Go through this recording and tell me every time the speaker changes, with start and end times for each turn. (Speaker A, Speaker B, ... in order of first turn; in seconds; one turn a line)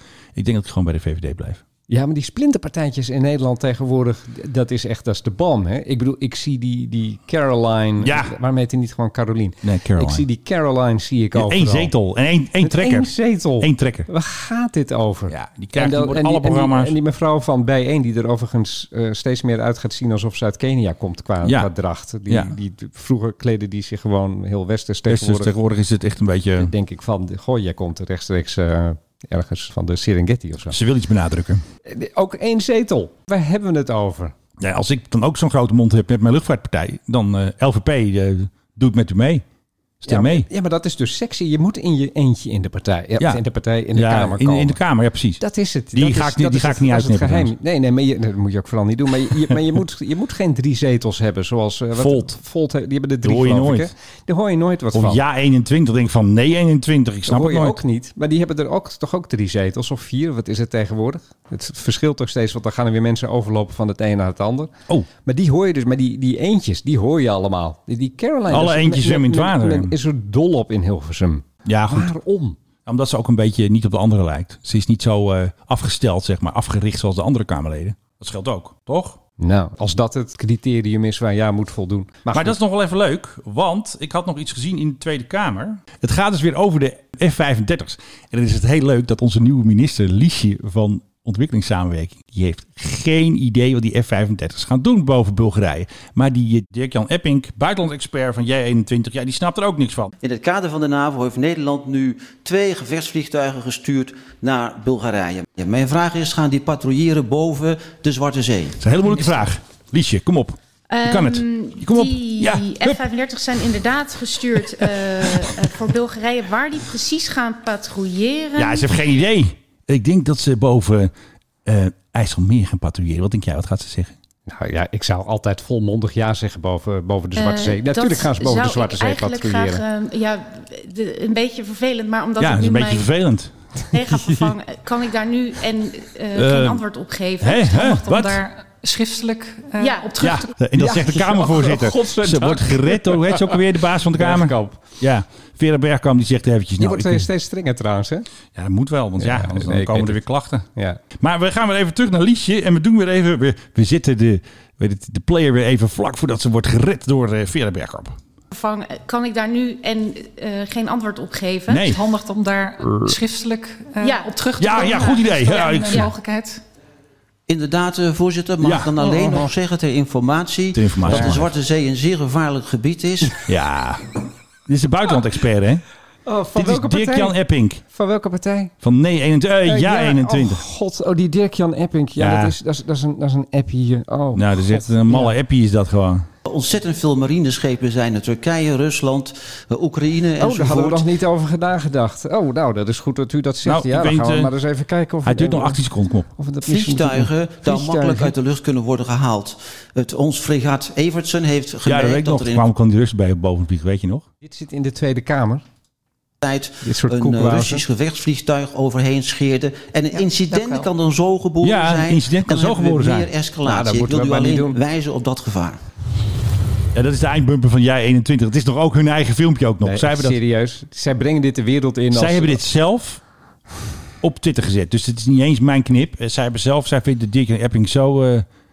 Speaker A: 0.3-1.6
Speaker B: 1.9-11.9
Speaker A: 8.0-8.3
Speaker A: 9.6-10.2
Speaker A: 11.3-14.1
Speaker B: 12.6-25.5
Speaker A: 15.3-16.9
Speaker A: 21.4-21.7
Speaker A: 22.3-22.5
Speaker A: 25.1-26.7
Speaker B: 26.6-30.8
Speaker A: 30.7-31.6
Speaker B: 31.9-34.3
Speaker A: 34.6-39.5
Speaker A: 40.0-40.5
Speaker B: 40.1-44.8
Speaker A: 43.9-45.4
Speaker B: 45.4-55.2
Speaker A: 45.9-47.5
Speaker A: 52.0-52.3
Speaker A: 53.2-53.9
Speaker A: 54.9-57.8
Speaker B: 57.3-64.7
Speaker B: 65.2-72.6
Speaker A: 68.5-70.0
Speaker A: 71.7-72.1
Speaker A: 72.9-79.2
Speaker B: 79.4-82.6
Speaker A: 82.3-100.1
Speaker C: 100.2-108.8
Speaker A: 108.8-113.0
Speaker D: 110.9-118.9
Speaker A: 118.6-121.1
Speaker A: 121.7-124.2
Speaker B: 124.5-129.8
Speaker D: 127.4-133.1
Speaker A: 132.4-133.5
Speaker D: 133.9-137.8
Speaker A: 136.3-136.8
Speaker A: 137.4-138.4
Speaker E: 137.7-140.5
Speaker D: 139.8-140.3
Speaker A: 140.2-147.3
Speaker B: 140.8-143.6
Speaker B: 144.2-144.8
Speaker B: 146.8-148.3
Speaker A: 148.5-150.7
Speaker B: 149.2-150.2
Speaker A: 151.2-158.2
Speaker D: 158.5-161.9
Speaker A: 161.7-162.0
Speaker E: 161.8-166.6
Speaker D: 164.0-165.3
Speaker A: 164.6-166.1
Speaker D: 165.9-166.1
Speaker C: 167.5-173.5
Speaker A: 168.6-169.1
Speaker B: 169.1-169.4
Speaker A: 170.7-171.5
Speaker B: 171.1-171.4
Speaker A: 173.4-174.1
Speaker A: 174.7-175.8
Speaker B: 176.3-178.7
Speaker A: 176.5-177.8
Speaker A: 178.8-180.6
Speaker B: 179.7-185.3
Speaker A: 182.2-182.6
Speaker A: 184.3-186.3
Speaker C: 186.5-191.1
Speaker B: 190.4-195.8
Speaker A: 193.6-194.5
Speaker A: 195.2-196.3
Speaker B: 196.3-198.4
Speaker C: 196.7-202.7
Speaker A: 201.8-204.2
Speaker B: 204.4-205.6
Speaker C: 206.4-215.8
Speaker B: 206.8-207.9
Speaker B: 210.5-210.9
Speaker A: 211.6-213.3
Speaker B: 213.6-214.8
Speaker A: 216.9-220.4
Speaker B: 219.8-222.6
Speaker A: 222.1-223.2
Speaker A: 224.2-228.5